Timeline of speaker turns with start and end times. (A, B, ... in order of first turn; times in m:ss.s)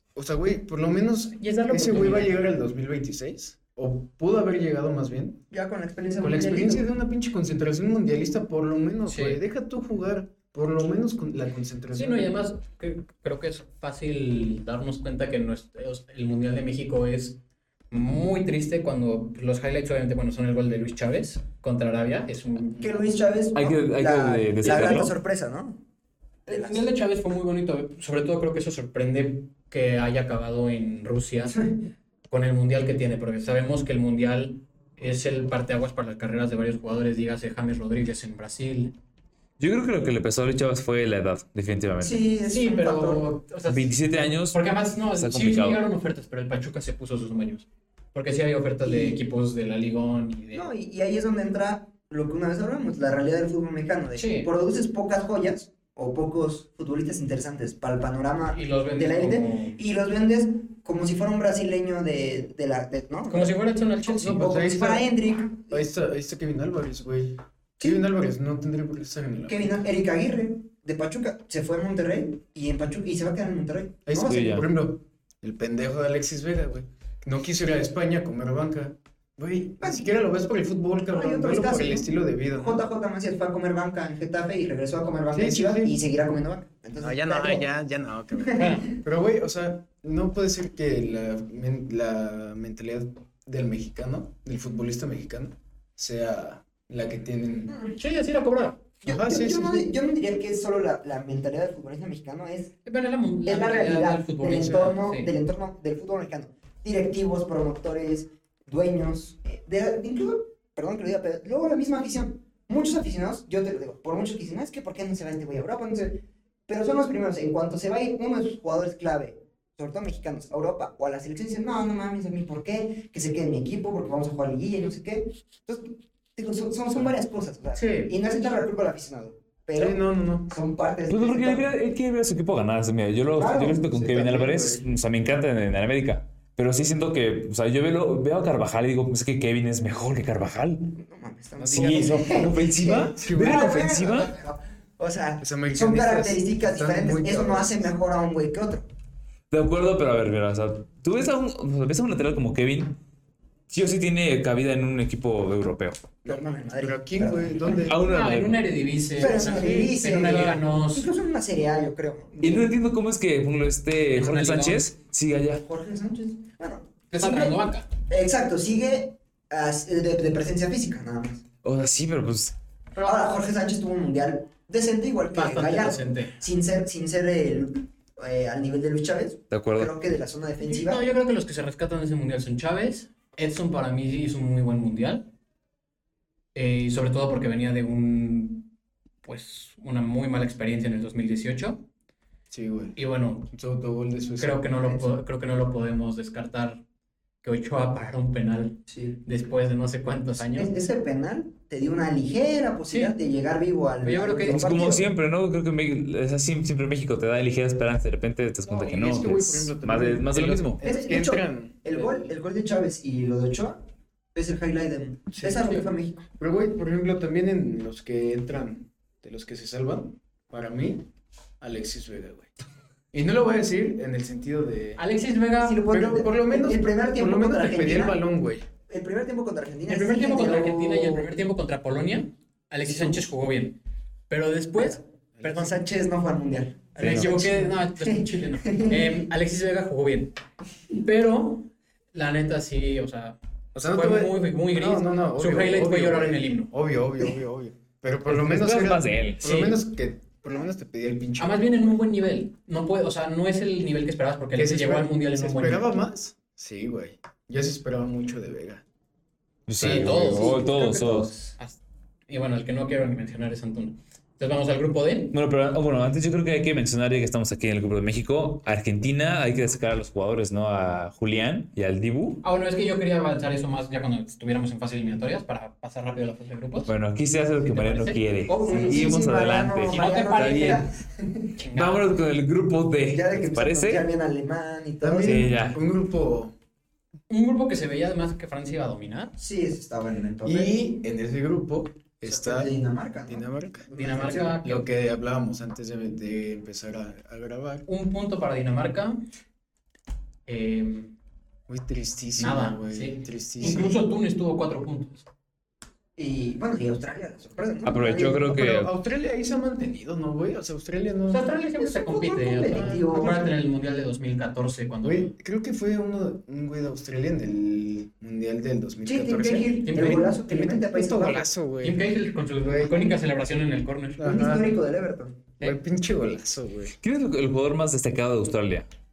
0:00.1-0:05.4 A
0:01.4-0:02.4 B
0:05.5-0:06.9 C
0:06.2-0:12.3 A
0:09.0-0:09.4 B
0:11.9-0:17.4 B
0:17.9-0:23.1 B
0:22.8-0:25.8 C
0:23.5-0:25.1 D
0:26.4-0:26.9 C
0:26.5-0:31.7 B
0:32.3-0:39.0 B
0:39.6-0:42.2 D
0:42.0-0:43.4 C
0:42.4-0:44.0 B
0:43.6-0:45.8 D
0:44.5-0:50.7 B
0:48.8-0:49.2 C
0:50.5-1:03.6 C
0:54.1-0:54.5 B
0:58.5-0:59.8 B
1:03.3-1:04.5 B
1:04.1-1:05.0 A
1:04.1-1:05.8 C
1:05.7-1:09.8 A
1:07.8-1:08.0 C
1:09.5-1:14.6 C
1:14.1-1:22.9 A
1:14.2-1:14.7 D
1:19.8-1:20.2 C
1:21.1-1:27.7 C
1:25.3-1:26.0 A
1:27.0-1:37.8 A
1:28.3-1:28.8 C
1:28.5-1:28.9 B
1:37.7-1:38.0 C
1:37.9-1:38.8 B
1:39.0-1:42.8 C
1:39.0-1:39.9 A
1:42.8-1:45.3 B
1:43.4-2:11.7 C
2:07.7-2:08.1 B
2:09.8-2:10.6 A
2:11.1-2:20.9 D
2:13.4-2:14.3 C
2:14.0-2:14.8 A
2:20.9-2:28.9 C
2:21.6-2:22.5 A
2:21.7-2:24.3 D
2:23.2-2:23.8 A
2:25.4-2:27.9 A
2:29.5-2:33.0 D
2:33.7-2:36.0 D
2:36.2-2:38.1 A
2:36.2-2:37.8 C
2:37.8-2:38.6 D
2:38.0-2:41.1 B
2:39.2-2:42.7 C
2:39.2-2:39.9 A
2:42.4-2:45.6 D
2:44.1-2:44.9 B
2:45.6-2:51.4 C
2:47.1-2:47.9 B
2:51.6-2:52.5 D
2:53.0-2:53.4 B
2:53.0-3:01.0 C
2:55.3-2:56.4 B
2:59.5-2:59.9 D
3:00.6-3:05.3 B
3:06.5-3:08.7 B
3:09.2-3:11.8 B
3:12.5-3:13.0 A
3:12.9-3:13.5 B
3:13.5-3:14.8 A
3:14.4-3:16.8 B
3:17.4-3:20.7 B
3:18.9-3:19.2 C
3:20.4-3:25.1 C
3:22.9-3:23.1 B
3:24.0-3:24.9 B
3:24.5-3:30.8 D
3:28.6-3:32.3 A
3:30.8-3:33.8 C
3:34.3-3:36.2 C
3:35.4-3:35.8 A
3:36.4-3:41.1 A
3:41.6-3:42.5 A
3:43.1-3:45.0 A
3:45.0-3:45.8 B
3:45.6-3:48.2 C
3:45.9-3:48.6 A
3:48.9-3:51.3 C
3:49.9-3:55.8 B
3:54.8-3:59.2 C
3:57.0-4:00.3 B
3:57.0-3:57.3 D
4:01.0-4:06.7 B
4:03.7-4:12.0 A
4:08.2-4:09.4 D
4:09.4-4:09.8 B
4:11.4-4:15.9 B
4:14.6-4:18.8 A
4:19.7-4:21.3 D
4:19.8-4:25.3 B
4:19.8-4:20.2 A
4:25.3-4:32.4 D
4:32.4-4:36.9 B
4:36.8-4:40.9 D
4:37.6-4:39.1 B
4:38.5-4:41.6 C
4:39.9-4:40.8 B
4:41.6-4:42.2 B
4:41.7-4:44.0 D
4:43.1-4:45.5 C
4:45.0-4:46.5 A
4:45.2-4:45.8 D
4:47.3-4:49.3 B
4:49.4-4:50.7 C
4:50.4-4:52.7 A
4:52.2-4:54.6 C
4:53.3-4:57.8 A
4:53.9-4:54.9 B
4:57.8-4:59.2 B
5:00.4-5:01.1 B
5:01.7-5:04.0 A
5:02.4-5:05.2 B
5:06.2-5:08.4 C
5:07.8-5:08.9 D
5:08.4-5:11.5 A
5:11.3-5:15.3 B
5:11.8-5:13.5 C
5:12.7-5:13.2 A
5:15.0-5:23.1 A
5:19.0-5:21.5 C
5:19.7-5:20.4 B
5:21.8-5:24.2 B
5:24.2-5:24.8 A
5:24.2-5:25.5 C
5:25.6-5:26.9 A
5:27.0-5:28.9 D